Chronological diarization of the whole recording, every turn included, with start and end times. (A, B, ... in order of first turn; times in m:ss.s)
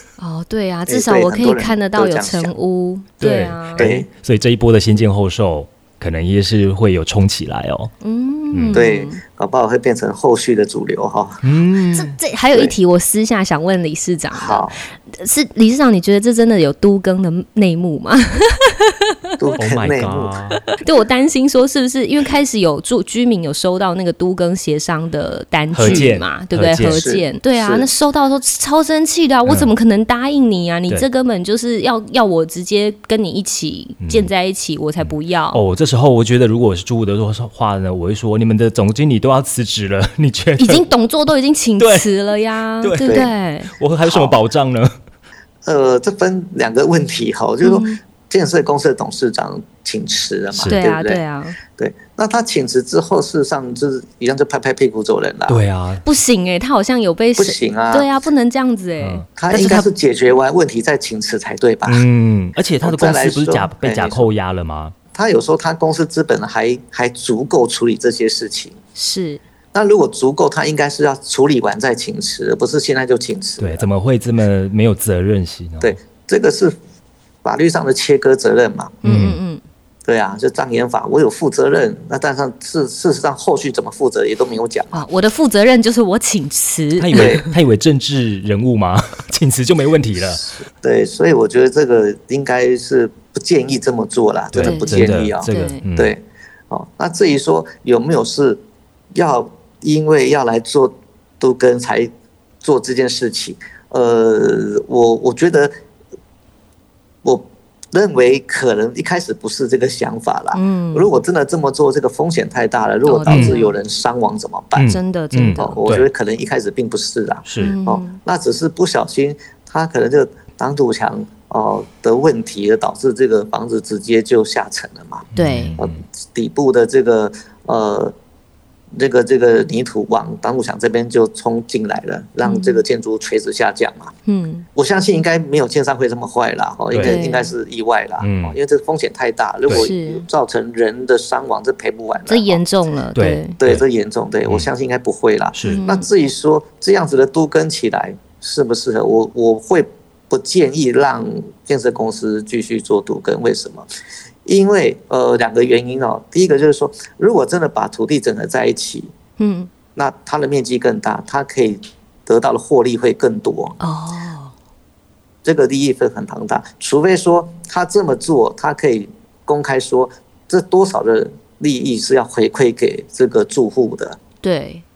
0:00.2-0:03.8 A
0:00.9-0:02.5 B
0:03.2-0:07.9 C
0:03.8-0:04.1 B
0:08.0-0:09.2 A
0:08.5-0:08.9 C
0:08.7-0:11.4 B
0:11.4-0:12.1 C
0:11.9-0:19.1 A
0:14.3-0:14.8 B
0:19.4-0:20.3 B
0:19.6-0:20.6 C
0:20.8-0:35.6 A
0:25.7-0:27.0 C
0:26.8-0:27.9 B
0:34.0-0:34.3 C
0:35.0-0:40.8 C
0:40.6-0:43.7 A
0:41.8-0:42.2 C
0:42.8-0:44.9 C
0:44.0-0:44.4 B
0:45.6-0:51.2 B
0:47.6-0:48.0 A
0:50.5-0:50.8 C
0:50.7-0:51.6 A
0:51.8-0:55.6 B
0:55.5-0:56.0 C
0:56.0-0:59.9 A
0:57.4-0:58.1 B
0:59.0-0:59.2 C
0:59.4-1:02.0 B
1:01.8-1:04.9 C
1:02.8-1:04.3 B
1:05.1-1:08.8 B
1:09.0-1:09.4 A
1:09.7-1:13.9 B
1:13.6-1:16.0 C
1:15.8-1:16.7 B
1:17.4-1:19.0 B
1:19.0-1:19.4 C
1:19.0-1:19.6 A
1:20.0-1:25.0 B
1:24.9-1:27.5 A
1:27.0-1:30.4 C
1:27.1-1:27.4 B
1:30.2-1:38.6 B
1:34.5-1:36.1 C
1:34.6-1:35.8 A
1:39.1-1:42.1 B
1:42.6-1:45.7 B
1:47.2-2:05.2 B
1:50.5-1:51.2 A
1:53.0-1:53.7 A
1:53.2-1:53.6 C
1:54.7-1:56.1 C
1:54.8-1:55.8 A
1:57.4-1:57.7 C
1:57.6-1:58.2 A
2:05.4-2:05.8 A
2:05.4-2:06.0 C
2:05.8-2:08.1 B
2:08.9-2:14.1 B
2:12.4-2:12.8 A
2:14.2-2:14.7 A
2:14.8-2:22.6 B
2:16.9-2:17.2 C
2:17.0-2:17.5 A
2:18.2-2:18.6 C
2:19.7-2:20.3 A
2:22.3-2:23.6 A
2:23.2-2:23.8 C
2:23.6-2:33.8 B
2:25.5-2:25.8 C
2:25.7-2:26.1 A
2:34.4-2:39.1 B
2:39.4-2:39.7 A
2:39.9-2:43.8 B
2:43.8-2:44.5 A
2:45.4-2:54.2 B
2:54.4-2:54.8 A